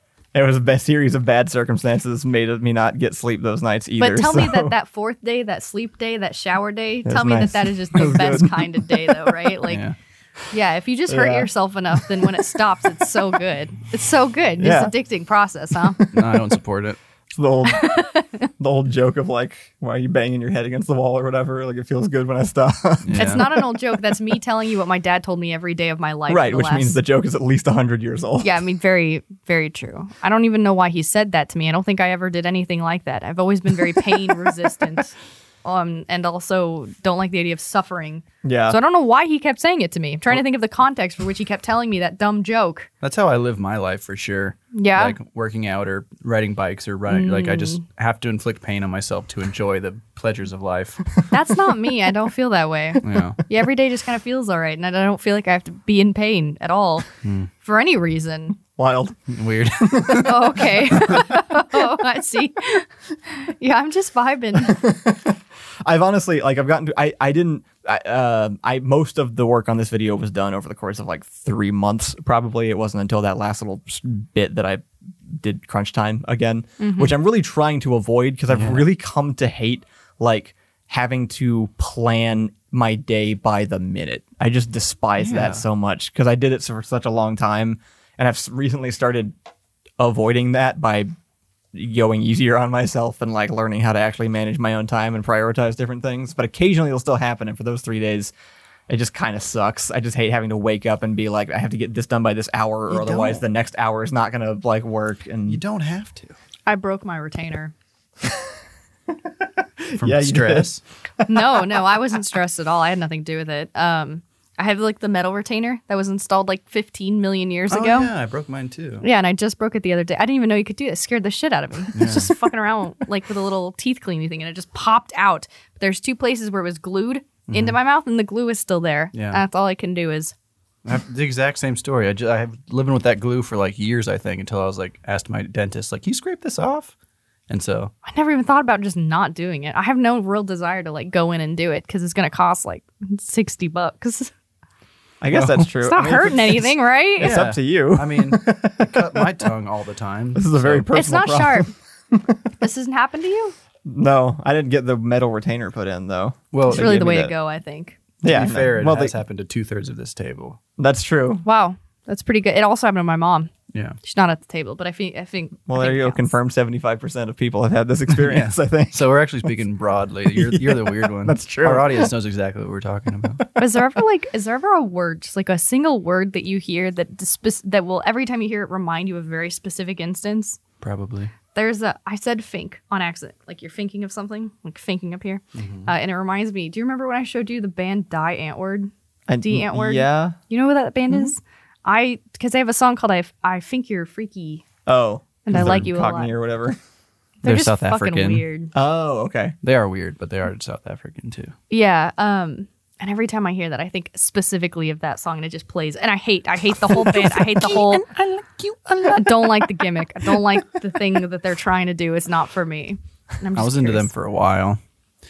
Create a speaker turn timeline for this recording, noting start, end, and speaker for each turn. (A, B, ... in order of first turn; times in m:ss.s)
0:00.3-0:04.7 A
0:04.0-0:09.8 B
0:07.0-0:09.6 A
0:09.7-0:09.9 C
0:10.5-0:16.0 B
0:11.1-0:12.5 A
0:14.6-0:14.9 A
0:16.0-0:17.0 C
0:17.3-0:17.9 A
0:17.6-0:18.5 B
0:18.6-0:24.2 A
0:23.0-0:23.4 C
0:23.2-0:27.0 B
0:26.3-0:28.6 A
0:28.4-0:42.9 B
0:38.4-0:38.8 A
0:43.0-0:51.2 C
0:44.7-0:45.2 B
0:47.1-0:47.8 B
0:51.3-0:58.6 B
0:53.0-0:53.4 C
0:57.2-0:57.5 C
0:58.8-1:01.5 A
0:59.3-1:00.6 C
1:00.2-1:04.8 B
1:04.6-1:29.3 A
1:16.8-1:17.1 B
1:18.5-1:18.8 C
1:25.2-1:25.6 C
1:30.0-1:31.1 A
1:31.7-1:38.3 A
1:38.9-1:45.6 A
1:42.9-1:43.4 C
1:45.5-1:46.3 C
1:46.6-1:47.7 B
1:48.2-1:48.5 A
1:49.1-1:51.8 A
1:50.0-1:50.8 C
1:51.3-1:58.1 B
1:57.7-1:59.0 C
1:59.0-2:10.3 B
2:01.9-2:02.3 C
2:07.5-2:07.8 C
2:09.1-2:09.4 C
2:10.8-2:16.9 C
2:17.5-2:17.9 C
2:18.0-2:24.3 B
2:25.2-2:29.4 A
2:25.3-2:25.7 C
2:25.8-2:27.4 B
2:27.2-2:30.9 C
2:30.3-2:32.5 A
2:30.9-2:31.7 B
2:32.6-2:33.5 B
2:33.8-2:37.3 A
2:36.5-2:36.9 C
2:36.7-2:38.0 B
2:38.2-2:39.1 A
2:38.2-2:40.6 C
2:40.8-2:41.4 A
2:41.4-2:43.5 B
2:44.0-2:46.3 B
2:45.7-2:49.0 A
2:48.2-2:53.5 C
2:50.3-2:52.1 A
2:53.6-3:00.6 B
3:00.8-3:01.3 C
3:01.5-3:14.6 B
3:05.5-3:05.9 C
3:09.3-3:10.4 A
3:14.8-3:16.8 A
3:15.4-3:16.3 B
3:15.5-3:15.8 C
3:17.4-3:18.7 B
3:17.4-3:18.4 C
3:18.7-3:19.5 A
3:19.6-3:21.5 C
3:21.7-3:28.0 B
3:27.1-3:29.5 C
3:29.0-3:34.1 B
3:33.6-3:34.8 C